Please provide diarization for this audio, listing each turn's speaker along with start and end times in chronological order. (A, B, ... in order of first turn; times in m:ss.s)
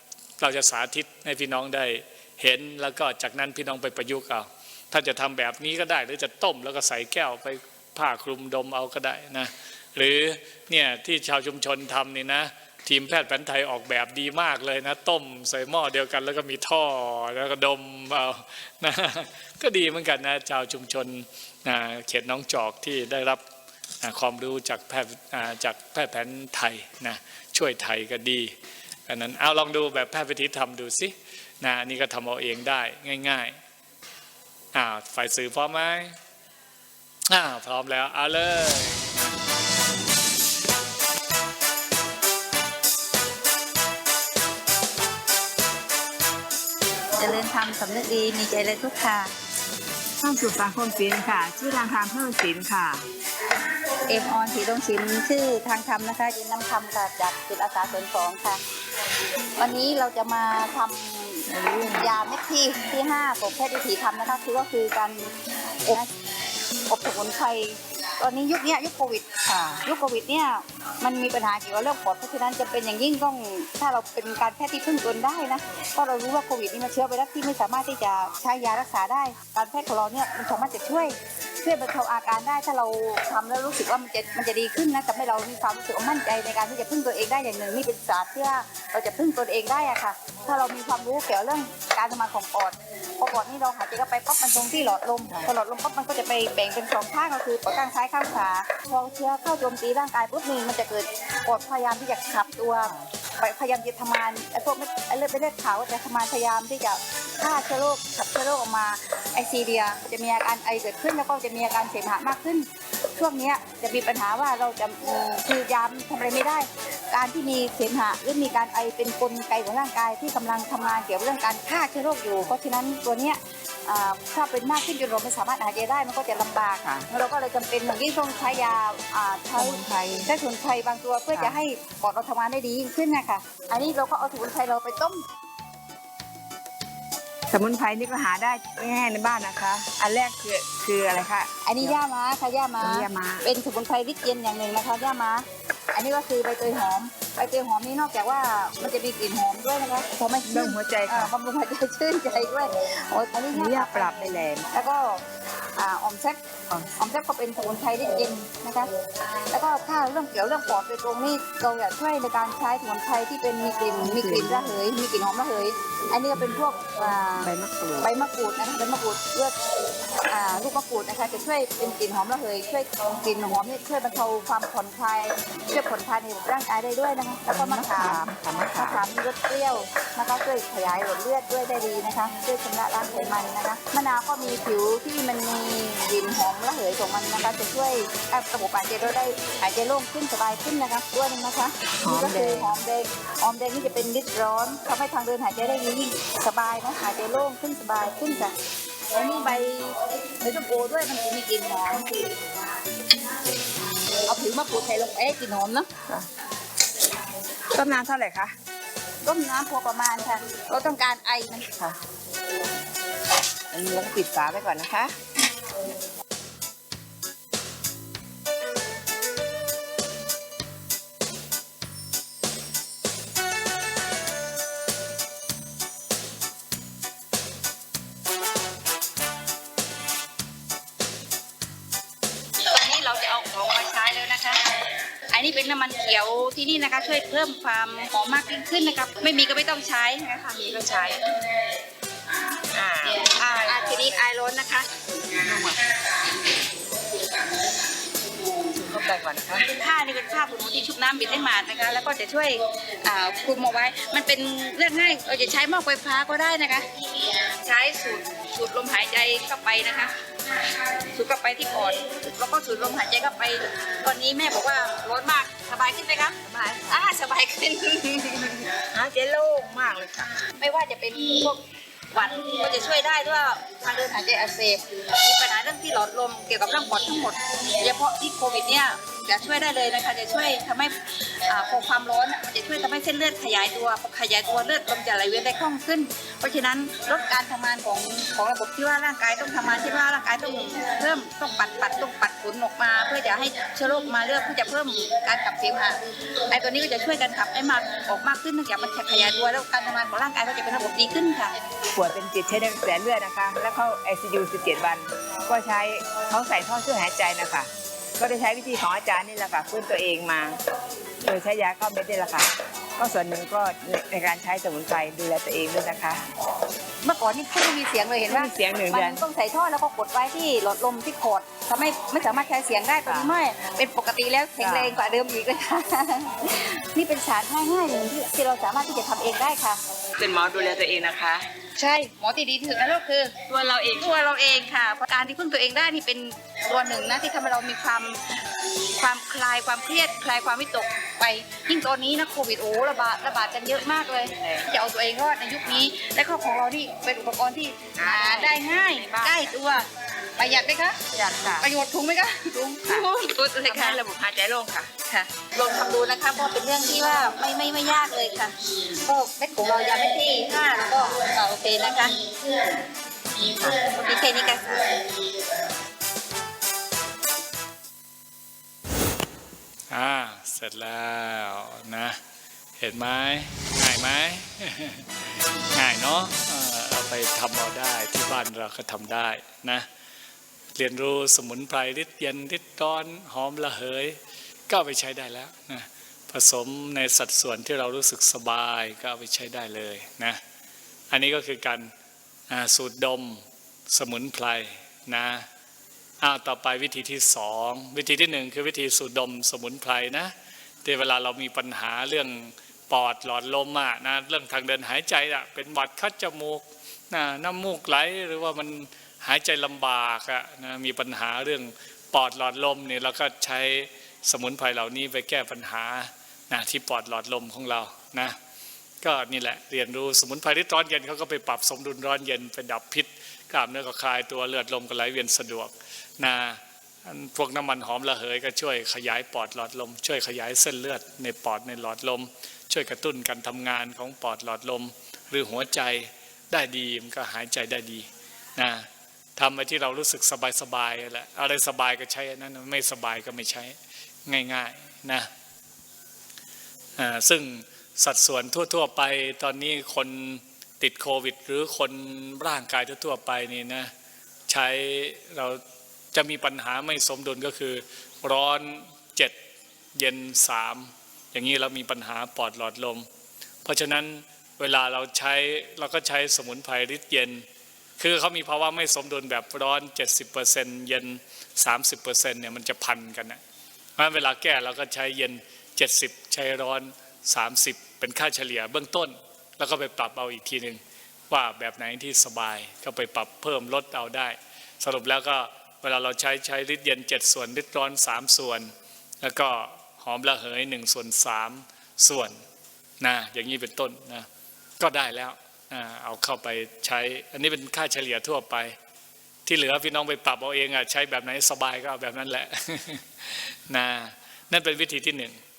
0:00.4-0:23.4 A
0:24.0-0:28.5 A
0:29.1-0:33.6 A
0:34.7-0:36.2 A
0:37.3-0:39.2 A
0:47.2-0:49.3 B
0:50.2-0:53.0 C
0:54.1-0:58.6 B
0:59.6-1:06.1 B
1:01.5-1:02.1 C
1:06.9-2:15.2 B
1:09.5-1:09.8 C
2:09.6-2:10.3 C
2:17.5-2:22.0 C
2:21.6-2:34.2 B
2:22.8-2:23.4 C
2:30.4-2:31.3 C
2:33.5-2:34.7 C
2:34.7-2:36.4 B
2:37.0-2:38.9 B
2:39.5-2:49.6 B
2:44.0-2:44.7 C
2:47.4-2:48.1 C
2:50.2-3:18.5 B
2:57.5-2:59.0 C
3:12.0-3:12.7 C
3:19.1-3:22.5 B
3:23.5-3:25.9 B
3:27.7-3:28.6 C
3:29.2-3:31.7 B
3:33.7-3:35.1 C
3:52.6-4:00.9 B
4:00.7-4:01.3 C
4:02.7-4:03.9 C
4:03.2-4:04.9 B
4:05.4-4:05.8 C
4:08.7-4:09.7 C
4:09.6-4:28.7 B
4:26.4-4:27.0 C
4:28.8-4:30.5 C
4:30.6-5:01.6 B
5:01.9-5:10.6 C
5:11.2-5:16.2 C
5:17.0-5:29.8 B
5:18.3-5:19.2 C
5:23.0-5:23.4 C
5:24.6-5:24.9 C
5:30.2-5:31.5 C
5:31.8-5:54.0 B
5:33.5-5:34.2 C
5:44.4-5:44.6 C
5:48.0-5:49.6 C
5:51.1-5:51.7 C
5:53.6-5:54.9 C
5:55.0-6:02.2 B
6:03.4-6:05.1 B
6:09.9-6:12.2 A
6:12.8-6:15.1 A
6:15.7-6:19.9 A
6:20.8-6:30.4 A
6:31.1-6:31.9 A
6:32.5-6:35.5 A
6:36.2-6:40.3 A
6:40.8-6:58.3 A
6:59.0-7:25.3 A
7:27.0-7:33.9 A
7:34.5-7:35.6 A
7:36.1-7:39.3 A
7:40.0-7:43.0 A
7:43.6-7:47.4 A
7:48.0-7:53.4 A
7:54.0-8:12.4 A
8:13.0-8:14.3 A
8:14.8-8:18.8 A
8:19.4-8:25.4 A